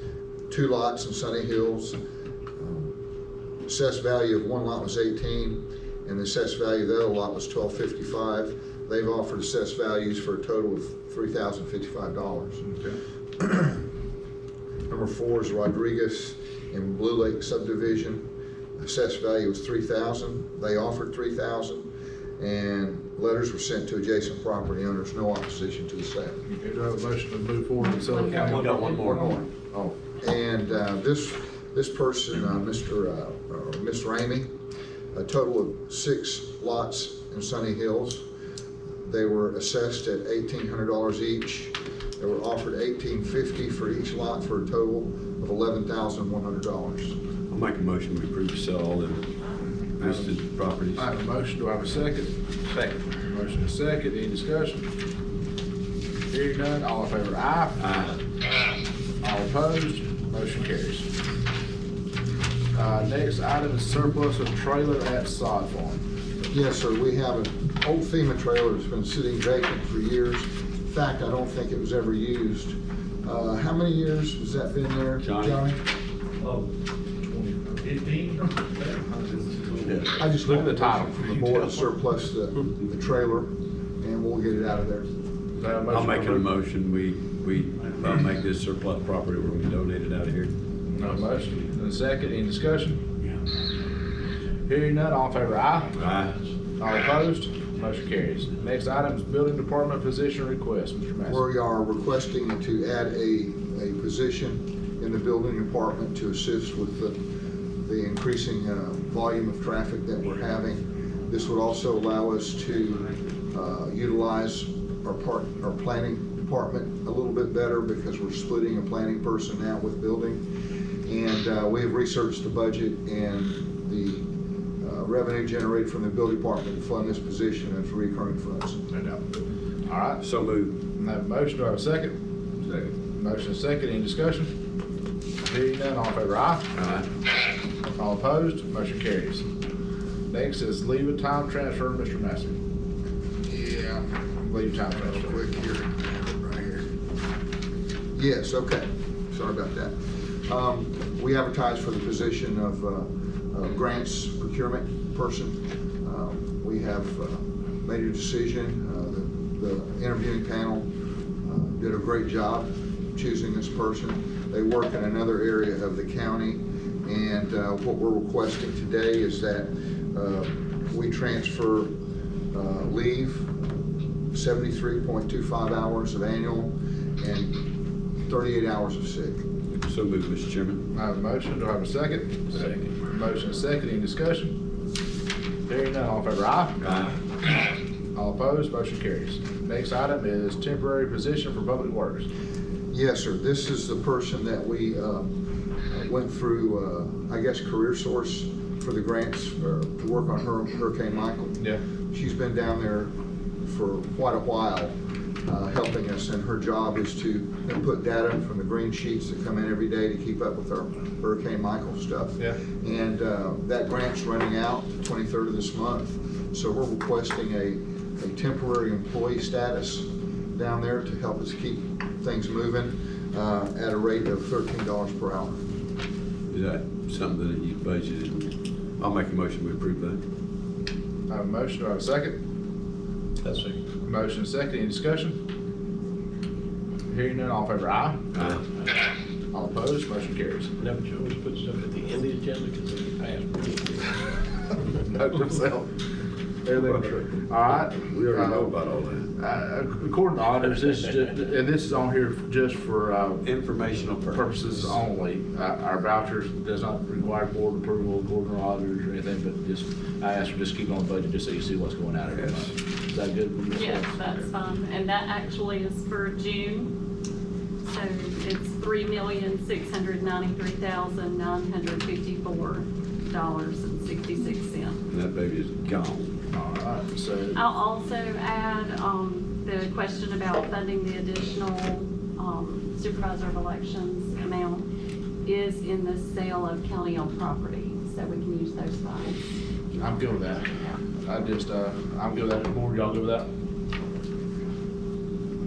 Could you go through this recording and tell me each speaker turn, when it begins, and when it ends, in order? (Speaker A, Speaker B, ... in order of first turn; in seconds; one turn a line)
Speaker A: 0.5-2.0
Speaker A: 2.6-2.9
Speaker A: 3.6-12.6
Speaker B: 12.6-13.0
Speaker A: 13.4-13.8
Speaker A: 14.9-18.2
Speaker A: 18.8-21.9
Speaker A: 22.4-26.4
Speaker B: 26.4-28.9
Speaker C: 27.8-29.4
Speaker D: 28.1-29.4
Speaker A: 28.7-29.4
Speaker A: 30.2-34.5
Speaker A: 35.1-38.2
Speaker A: 39.0-47.1
Speaker D: 47.5-49.2
Speaker D: 50.0-51.1
Speaker B: 50.9-54.9
Speaker B: 56.3-57.8
Speaker D: 57.8-58.2
Speaker B: 59.2-61.1
Speaker B: 62.7-66.0
Speaker A: 66.5-75.8
Speaker D: 75.2-75.6
Speaker B: 77.2-78.4
Speaker B: 78.9-79.3
Speaker D: 79.8-80.1
Speaker A: 80.2-85.1
Speaker B: 80.4-81.9
Speaker B: 85.6-86.5
Speaker D: 85.9-90.5
Speaker B: 90.9-93.0
Speaker B: 94.7-95.9
Speaker D: 96.0-96.3
Speaker B: 96.8-101.4
Speaker A: 101.2-107.2
Speaker A: 107.8-120.4
Speaker A: 121.0-124.2
Speaker A: 124.8-128.8
Speaker B: 128.9-129.2
Speaker B: 129.8-130.2
Speaker D: 130.2-130.7
Speaker B: 130.9-132.2
Speaker D: 132.6-132.9
Speaker B: 133.1-134.5
Speaker B: 135.4-136.7
Speaker D: 136.8-137.1
Speaker B: 137.9-139.4
Speaker B: 140.3-142.6
Speaker A: 143.4-146.8
Speaker B: 144.4-145.4
Speaker A: 148.1-160.9
Speaker A: 161.4-171.9
Speaker A: 172.5-173.5
Speaker A: 174.3-177.5
Speaker A: 178.2-179.4
Speaker D: 179.8-180.8
Speaker B: 180.9-184.5
Speaker B: 185.7-186.9
Speaker D: 186.8-187.1
Speaker B: 188.1-192.3
Speaker A: 192.9-195.3
Speaker A: 195.9-203.1
Speaker A: 203.6-225.6
Speaker D: 226.5-230.2
Speaker B: 231.3-232.4
Speaker E: 233.4-233.8
Speaker B: 234.0-235.4
Speaker B: 237.1-238.3
Speaker D: 238.3-238.6
Speaker B: 239.5-240.7
Speaker E: 240.8-244.0
Speaker B: 244.9-246.0
Speaker B: 246.6-248.7
Speaker D: 248.0-249.3
Speaker B: 249.4-253.4
Speaker D: 253.4-255.0
Speaker B: 254.3-264.4
Speaker D: 262.3-262.7
Speaker C: 263.7-266.9
Speaker C: 267.8-275.0
Speaker D: 275.1-276.3
Speaker B: 276.5-277.6
Speaker C: 277.5-284.9
Speaker C: 285.4-291.0
Speaker B: 290.0-290.7
Speaker B: 291.2-293.5